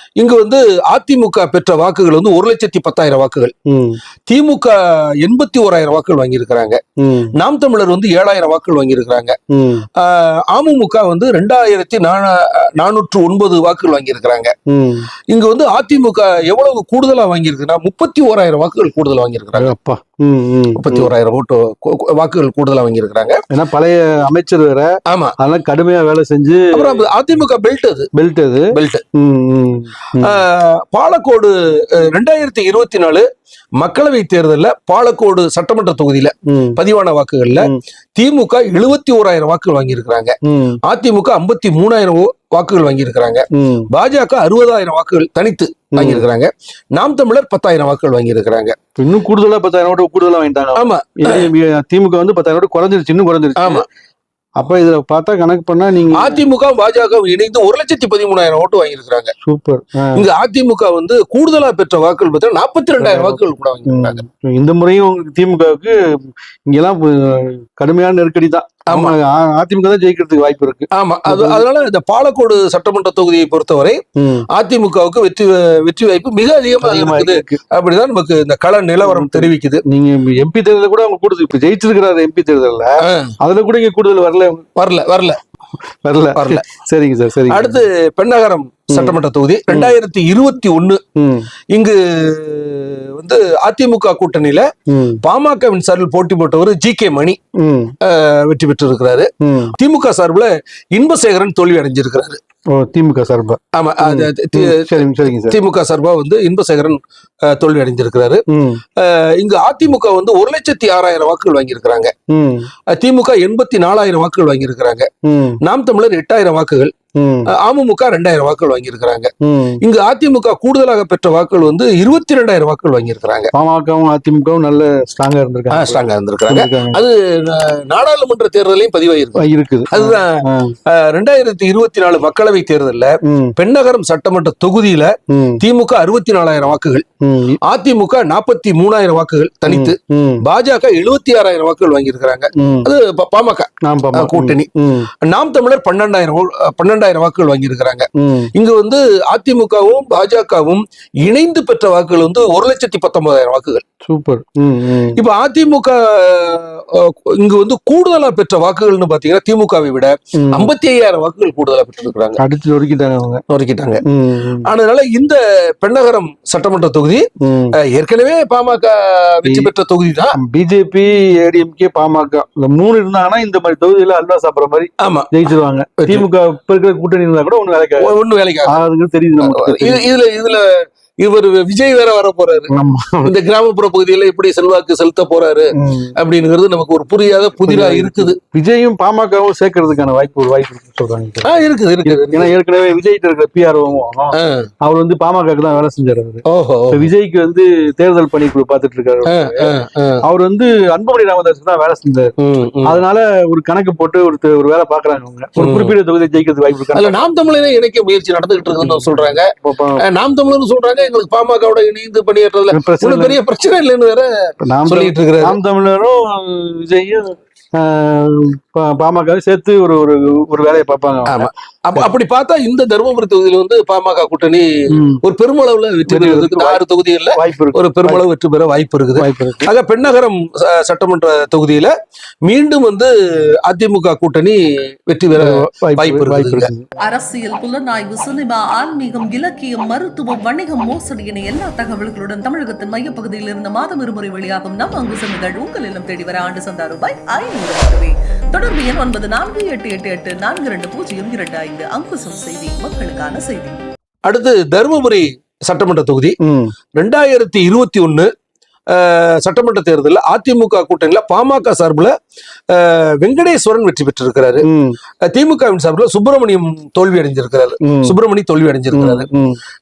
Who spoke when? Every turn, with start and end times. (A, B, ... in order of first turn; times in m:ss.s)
0:00.2-0:03.5 A
0:03.7-0:04.0 B
0:04.3-0:06.8 A
0:07.0-0:07.3 B
0:07.3-0:09.4 A
0:09.5-0:09.9 B
0:10.0-0:14.5 A
0:14.7-0:15.1 B
0:15.3-0:19.7 A
0:19.6-0:21.1 B
0:20.8-0:23.4 A
0:23.5-0:27.0 B
0:25.1-0:25.4 A
0:26.7-0:28.1 A
0:28.2-0:30.4 B
0:28.7-0:29.0 A
0:30.2-0:33.3 A
0:33.8-0:48.8 A
0:36.5-0:36.8 B
0:40.5-0:40.8 B
0:43.5-0:43.9 B
0:46.0-0:46.3 B
0:49.0-0:53.9 B
0:50.8-0:51.5 A
0:53.6-0:53.9 A
0:54.6-0:56.4 B
0:56.1-0:59.3 A
0:59.4-1:00.3 B
1:00.2-1:04.2 A
1:03.0-1:11.6 B
1:08.9-1:09.2 A
1:10.9-1:14.0 A
1:14.2-1:14.5 B
1:14.5-1:19.8 A
1:16.8-1:17.6 B
1:19.0-1:24.7 B
1:23.0-1:23.3 A
1:24.8-1:25.4 A
1:25.9-1:27.8 B
1:26.3-1:26.7 A
1:27.5-1:31.0 A
1:29.7-1:30.0 B
1:31.2-1:31.5 B
1:31.7-1:34.7 A
1:34.9-1:35.2 B
1:35.2-1:37.4 A
1:37.6-1:38.0 B
1:38.0-1:42.4 A
1:39.4-1:39.7 B
1:42.7-1:45.6 B
1:43.7-1:48.4 A
1:48.5-1:48.8 B
1:49.0-1:52.1 A
1:52.3-1:52.7 B
1:52.9-1:55.1 A
1:55.3-1:55.6 B
1:55.6-1:56.9 A
1:57.2-1:57.5 B
1:57.5-2:03.5 A
1:59.4-1:59.8 B
2:03.5-2:07.0 B
2:05.7-2:17.1 A
2:09.4-2:10.8 B
2:13.2-2:13.5 B
2:15.3-2:15.6 B
2:17.2-2:17.6 B
2:17.6-2:24.7 A
2:19.7-2:20.4 B
2:22.6-2:22.9 B
2:23.9-2:25.1 B
2:25.2-2:33.8 A
2:28.2-2:28.5 B
2:34.1-2:35.2 B
2:35.2-2:42.4 A
2:40.4-2:40.7 B
2:42.4-2:43.4 B
2:43.5-2:50.4 A
2:44.1-2:44.7 B
2:47.4-2:47.8 B
2:49.4-2:49.7 B
2:50.4-2:58.1 B
2:55.0-2:55.4 A
2:56.0-2:56.3 A
2:58.0-2:58.8 A
2:58.6-3:00.1 B
2:59.4-3:02.7 A
3:02.7-3:03.3 B
3:03.2-3:08.4 A
3:05.8-3:06.1 B
3:07.6-3:22.3 B
3:11.4-3:12.6 A
3:14.3-3:14.7 A
3:16.5-3:17.1 A
3:19.3-3:20.2 A
3:22.4-3:23.0 A
3:22.8-3:27.2 B
3:25.6-3:26.0 A
3:26.9-3:34.3 A
3:28.8-3:30.0 B
3:32.7-3:33.4 B
3:34.6-3:42.1 B
3:34.9-3:35.6 A
3:41.3-3:51.9 A
3:44.9-3:45.2 B
3:46.1-3:46.8 B
3:47.3-3:48.2 B
3:49.2-3:49.7 B
3:52.5-3:53.1 A
3:53.6-3:56.7 A
3:55.4-3:56.8 B
3:57.0-4:13.8 C
4:14.3-4:16.4 A
4:16.4-4:16.7 B
4:17.0-4:18.3 A
4:18.9-4:22.1 A
4:22.7-4:24.7 A
4:24.6-4:25.0 B
4:25.3-4:29.3 A
4:27.8-4:28.2 B
4:28.9-4:29.6 B